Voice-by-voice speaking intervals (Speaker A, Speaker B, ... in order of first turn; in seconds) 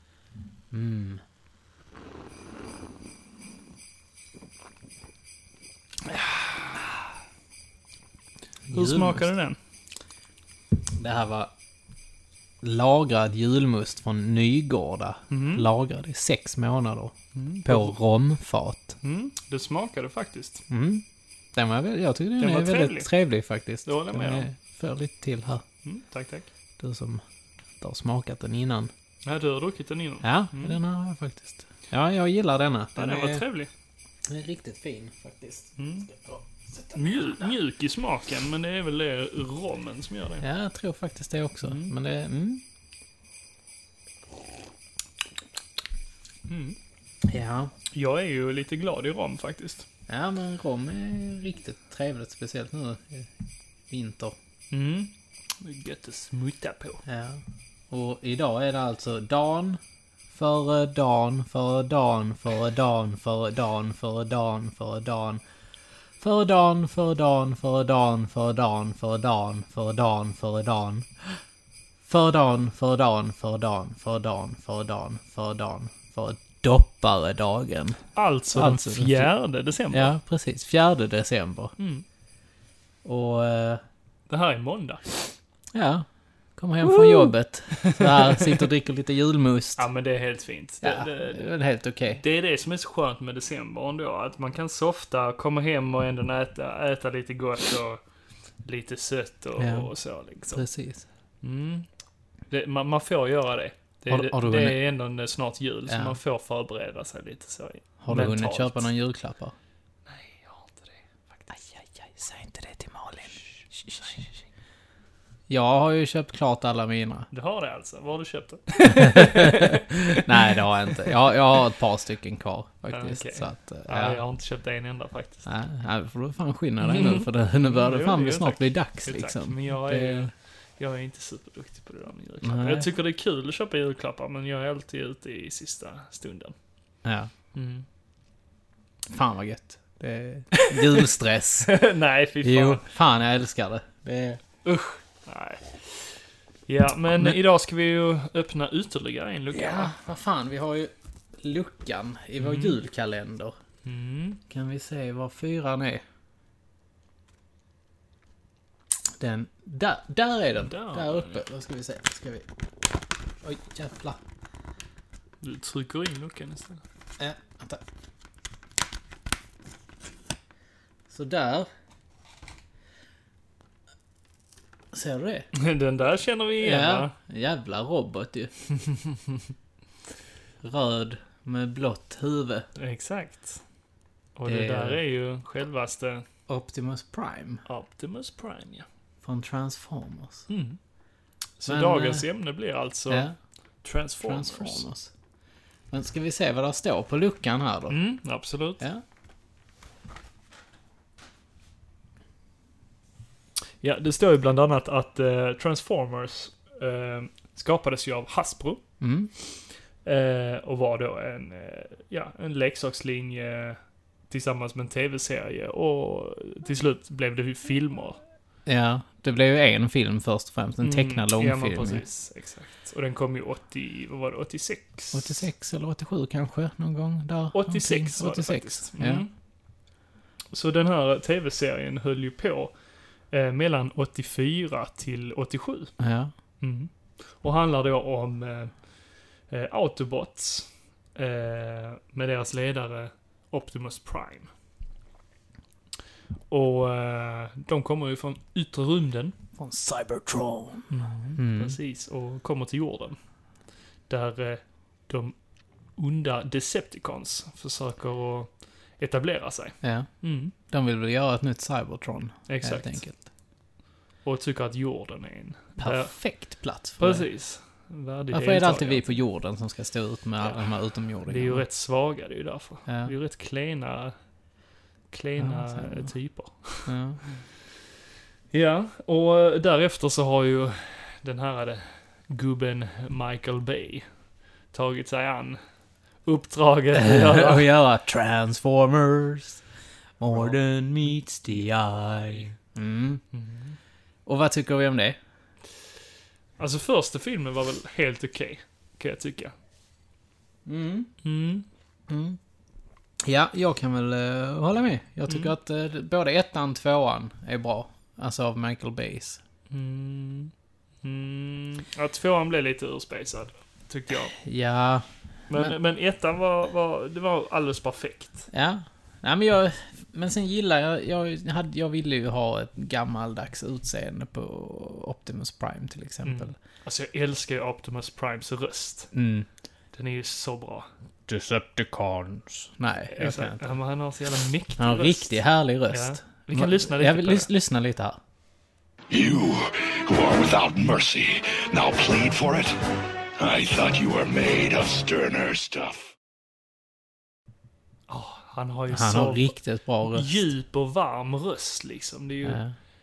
Speaker A: 0.7-1.2, 8.7-9.3, 10.9-11.5, 12.6-17.1, 17.7-19.0, 20.7-21.0, 21.6-25.6, 26.8-27.2, 27.8-28.9, 30.2-33.4, 34.3-37.5, 40.4-42.6, 47.3-47.7, 50.1-53.3, 53.9-54.4, 57.0-59.8, 60.3-65.4, 66.2-71.3, 72.1-78.0, 78.5-79.3, 79.9-81.7, 83.0-83.8, 85.7-86.0, 86.6-89.9, 90.8-92.2, 99.6-99.9, 100.5-101.1, 104.1-104.8, 105.9-106.2, 108.0-109.5, 111.5-114.3, 115.5-117.3, 118.8-124.2, 125.5-130.3, 132.4-132.9, 137.0-137.3, 139.1-141.7, 142.4-144.4, 147.1-147.4, 149.5-153.6, 154.5-156.0, 159.2-162.5, 163.4-164.2, 167.2-167.8, 171.1-171.7, 174.9-175.5, 176.6-178.6, 180.6-182.7, 184.4-185.0, 186.5-187.6, 189.2-190.5, 191.7-192.3, 193.1-193.3, 194.2-195.1, 195.9-198.0, 209.0-209.3, 218.7-222.0, 225.1-229.2, 236.0-236.3, 249.6-251.8, 259.8-260.1, 260.7-263.2, 265.8-267.3, 268.3-271.6, 272.9-273.1, 275.4-276.1, 276.9-277.2, 286.9-289.6, 290.2-293.2, 294.3-295.2, 300.7-301.1, 302.1-302.4, 303.3-309.4, 314.3-315.8, 318.5-326.5, 329.1-329.5, 331.3-333.8, 334.8-338.2, 348.9-350.5, 352.4-352.8
Speaker B: 8.7-9.6, 15.3-15.7, 17.4-18.0, 19.0-20.6, 22.4-23.1, 23.9-24.5, 25.8-26.5, 29.2-30.8, 33.0-33.7, 35.8-36.1, 36.9-40.5, 41.6-41.9, 46.5-46.8, 47.9-49.9, 54.7-57.0, 78.2-80.1, 81.8-82.0, 84.3-85.3, 86.8-88.5, 89.8-91.6, 92.2-98.0, 98.6-100.7, 101.4-101.9, 102.5-108.9, 110.1-111.5, 113.3-114.3, 117.3-121.3, 122.9-125.5, 126.8-136.5, 137.5-137.9, 140.5-141.1, 141.7-142.9, 144.6-149.9, 152.4-152.8, 153.8-154.4, 160.6-161.4, 165.4-166.8, 175.5-177.1, 182.8-183.6, 184.4-186.2, 187.7-188.9, 190.5-190.8, 191.6-193.3, 193.8-194.8, 197.9-198.8, 203.8-208.8, 209.4-213.8, 214.3-218.2, 220.8-225.5, 227.5-229.3, 230.5-232.7, 233.3-235.9, 236.6-238.8, 239.5-244.5, 246.5-249.4, 251.2-253.2, 254.1-255.4, 256.0-260.5, 262.5-263.1, 264.2-266.2, 267.0-269.0, 271.3-274.2, 275.1-276.9, 278.5-284.1, 284.7-285.6, 286.2-287.7, 290.3-290.6, 293.3-293.8, 296.6-299.5, 301.2-301.7, 305.3-305.6, 309.7-314.4, 315.5-318.5, 326.2-329.1, 329.9-330.9, 333.1-337.5, 348.1-352.6
Speaker C: 339.1-342.8, 343.4-346.1